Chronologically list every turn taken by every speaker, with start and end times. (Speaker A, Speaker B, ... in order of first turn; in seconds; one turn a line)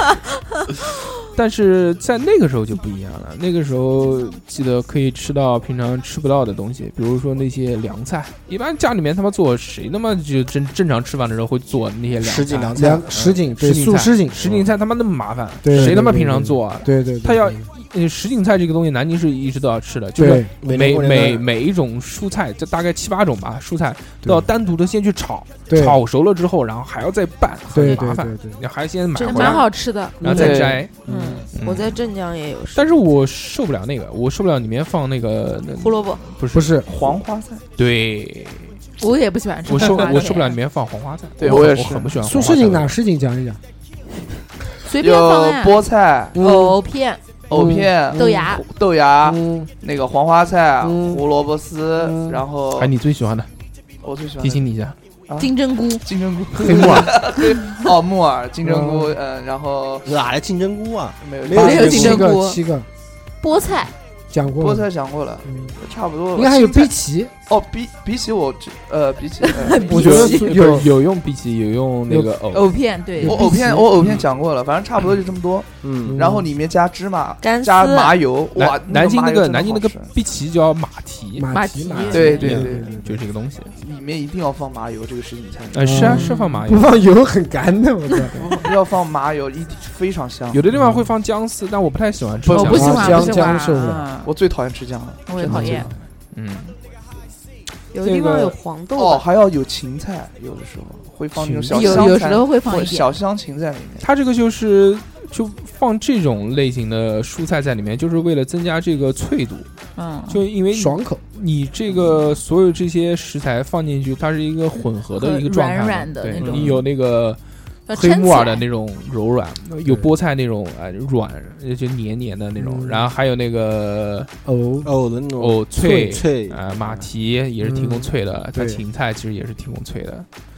Speaker A: 1.3-12.8
Speaker B: 12.2-13.4
Speaker C: 12.8-14.6
Speaker A: 13.6-29.7
Speaker C: 15.6-17.7
Speaker C: 20.2-20.5
Speaker B: 20.6-21.4
Speaker C: 25.7-26.0
Speaker C: 27.7-28.6
Speaker D: 29.2-30.2
Speaker E: 29.2-29.7
Speaker A: 30.2-30.9
Speaker F: 30.2-30.9
Speaker C: 30.2-31.4
Speaker E: 31.1-32.9
Speaker A: 31.5-32.0
Speaker A: 32.8-36.8
Speaker E: 35.8-36.2
Speaker C: 36.5-36.9
Speaker F: 36.9-37.6
Speaker A: 37.8-38.8
Speaker D: 39.0-40.6
Speaker A: 39.7-42.9
Speaker F: 41.4-42.1
Speaker C: 41.4-43.6
Speaker D: 44.8-45.8
Speaker F: 45.0-46.4
Speaker C: 46.3-46.8
Speaker D: 46.4-47.2
Speaker F: 47.5-52.9
Speaker C: 47.5-48.6
Speaker D: 48.1-48.6
Speaker C: 49.2-49.7
Speaker C: 50.8-51.2
Speaker C: 52.0-52.4
Speaker A: 52.8-53.5
Speaker F: 54.0-54.7
Speaker A: 54.4-55.0
Speaker F: 55.3-60.1
Speaker D: 55.4-56.0
Speaker A: 56.5-57.2
Speaker C: 56.6-57.0
Speaker C: 58.6-59.2
Speaker B: 60.0-62.2
Speaker F: 61.2-62.2
Speaker D: 61.5-62.6
Speaker C: 61.5-62.9
Speaker D: 63.4-63.9
Speaker C: 64.3-64.9
Speaker F: 64.6-66.9
Speaker C: 65.4-65.8
Speaker C: 66.3-67.3
Speaker F: 67.5-69.9
Speaker D: 69.5-70.5
Speaker C: 69.7-70.9
Speaker A: 70.0-72.7
Speaker C: 72.1-72.4
Speaker D: 72.5-73.5
Speaker C: 73.2-74.1
Speaker F: 73.2-80.1
Speaker B: 75.8-76.2
Speaker C: 76.0-76.5
Speaker E: 77.4-78.2
Speaker A: 78.6-81.5
Speaker C: 81.4-83.2
Speaker D: 81.5-82.8
Speaker F: 82.1-83.0
Speaker A: 83.0-83.8
Speaker F: 83.8-86.0
Speaker A: 85.7-86.9
Speaker C: 85.8-88.6
Speaker D: 86.0-86.6
Speaker F: 88.4-90.6
Speaker A: 90.5-93.3
Speaker C: 90.7-91.1
Speaker D: 92.5-94.3
Speaker F: 92.5-96.0
Speaker C: 92.6-94.1
Speaker D: 95.3-95.9
Speaker C: 95.5-95.9
Speaker A: 96.3-96.8
Speaker E: 97.9-99.2
Speaker A: 98.0-98.5
Speaker F: 99.0-104.1
Speaker C: 101.4-101.9
Speaker D: 101.7-103.1
Speaker A: 104.0-109.7
Speaker D: 110.0-110.5
Speaker A: 110.3-124.3
Speaker C: 110.7-111.2
Speaker D: 115.1-116.8
Speaker B: 116.4-116.7
Speaker D: 117.9-118.7
Speaker C: 122.6-123.1
Speaker C: 124.5-124.9
Speaker B: 124.8-127.0
Speaker A: 125.4-130.3
Speaker C: 127.6-128.8